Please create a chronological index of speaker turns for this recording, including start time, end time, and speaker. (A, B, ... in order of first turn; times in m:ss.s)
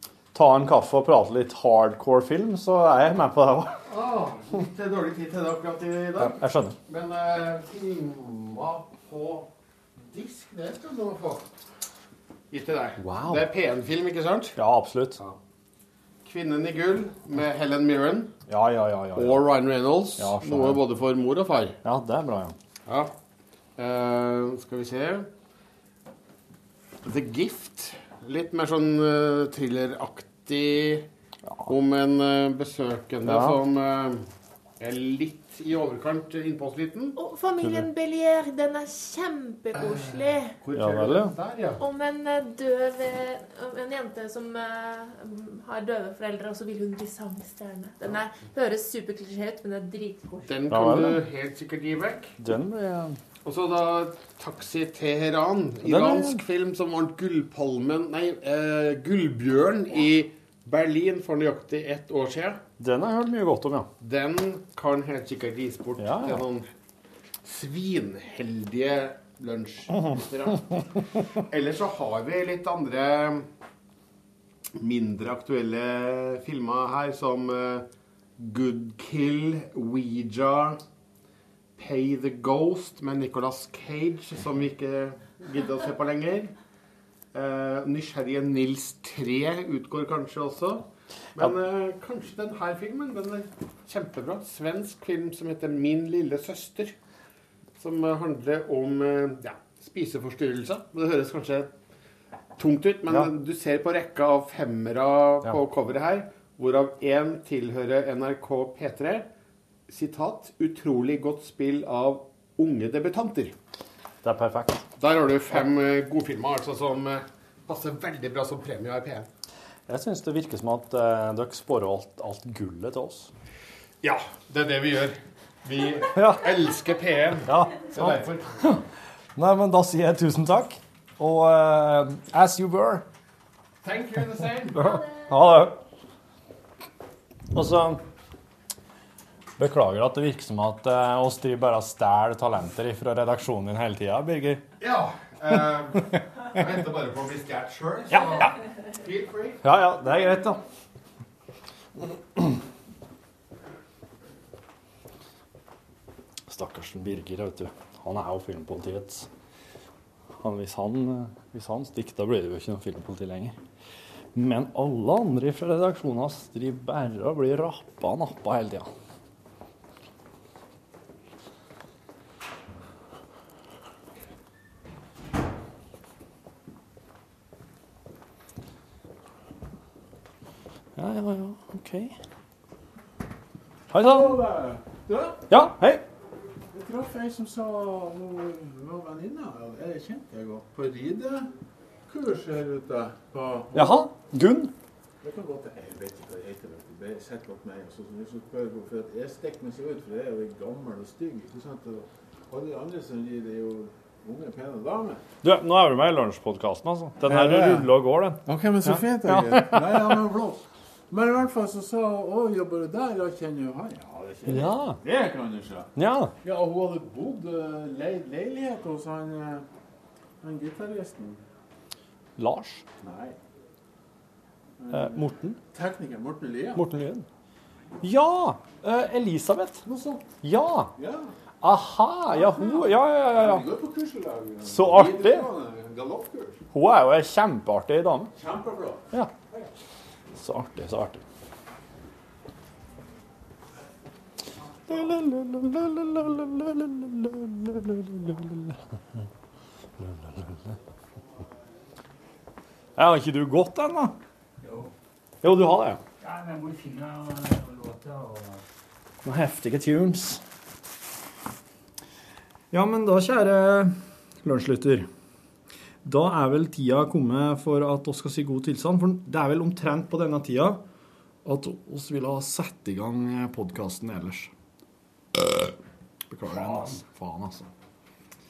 0:00.3-0:03.8 A
0:03.9-0:09.5 B
0:06.2-0:06.8 A
0:10.1-0:11.4 B
0:12.5-0:14.6 B
0:13.0-0:13.5 A
0:14.6-0:15.2 A
0:16.2-0:18.3 B
0:18.5-0:20.9 A
0:19.1-0:21.8 B
0:21.8-0:22.5 A
0:23.8-0:25.3 B
0:27.0-0:31.1 B
0:31.5-0:31.7 A
0:31.6-0:34.2 B
0:33.2-0:33.6 A
0:34.8-0:37.2 B
0:37.2-0:40.6 C
0:39.8-0:41.8 B
0:40.7-0:41.3 A
0:41.8-0:50.6 C
0:50.5-0:52.3 B
0:50.7-0:51.2 A
0:52.4-0:53.2 A
0:53.4-1:02.6 B
0:55.8-0:56.4 A
1:02.8-1:03.9 A
1:04.0-1:06.6 B
1:06.0-1:06.4 A
1:07.4-1:10.6 B
1:11.5-1:13.4 B
1:14.8-1:17.8 B
1:18.4-1:20.8 B
1:21.8-1:26.5 B
1:27.3-1:36.9 B
1:37.8-1:41.7 B
1:42.6-1:49.3 B
1:43.1-1:43.3 A
1:49.9-1:53.5 B
1:54.2-1:54.8 A
1:55.0-1:59.3 B
1:59.9-2:03.3 A
2:04.0-2:08.4 B
2:06.1-2:06.7 A
2:07.4-2:08.8 A
2:09.4-2:13.0 A
2:13.8-2:14.9 B
2:14.7-2:15.8 A
2:17.5-2:18.0 A
2:19.6-2:24.6 A
2:24.8-2:29.6 B
2:29.6-2:30.6 A
2:36.5-2:39.3 A
2:40.4-2:43.6 A
2:44.3-2:48.9 A
3:01.0-3:02.1 A
3:03.9-3:04.4 A
3:04.0-3:05.4 D
3:05.5-3:06.0 A
3:06.7-3:11.5 D
3:12.1-3:14.1 D
3:13.7-3:14.7 A
3:15.2-3:25.2 D
3:25.4-3:30.2 A
3:27.3-3:27.9 D
3:28.4-3:35.9 D
3:34.5-3:35.0 A
3:36.0-3:36.3 A
3:36.4-3:39.6 D
3:40.4-3:41.4 D
3:42.4-3:42.8 A
3:43.0-3:43.4 D
3:44.8-3:46.8 D
3:44.9-3:45.6 A
3:46.8-3:47.2 A
3:48.0-3:49.8 A
3:49.8-3:50.3 D
3:50.4-3:50.9 A
3:51.0-3:51.3 D
3:51.6-3:53.7 A
3:53.2-3:56.6 D
3:54.7-3:55.5 A
3:56.7-3:58.3 A
3:58.4-3:59.6 D
4:00.3-4:01.2 A
4:04.9-4:08.8 A
4:10.0-4:10.5 A
4:13.0-4:14.2 A
4:14.6-4:14.9 E
4:15.4-4:16.0 A
4:16.2-4:18.6 E
4:19.2-4:20.4 A
4:22.7-4:25.1 A
4:26.0-4:30.8 A
4:31.4-4:34.5 A
4:36.3-4:37.7 A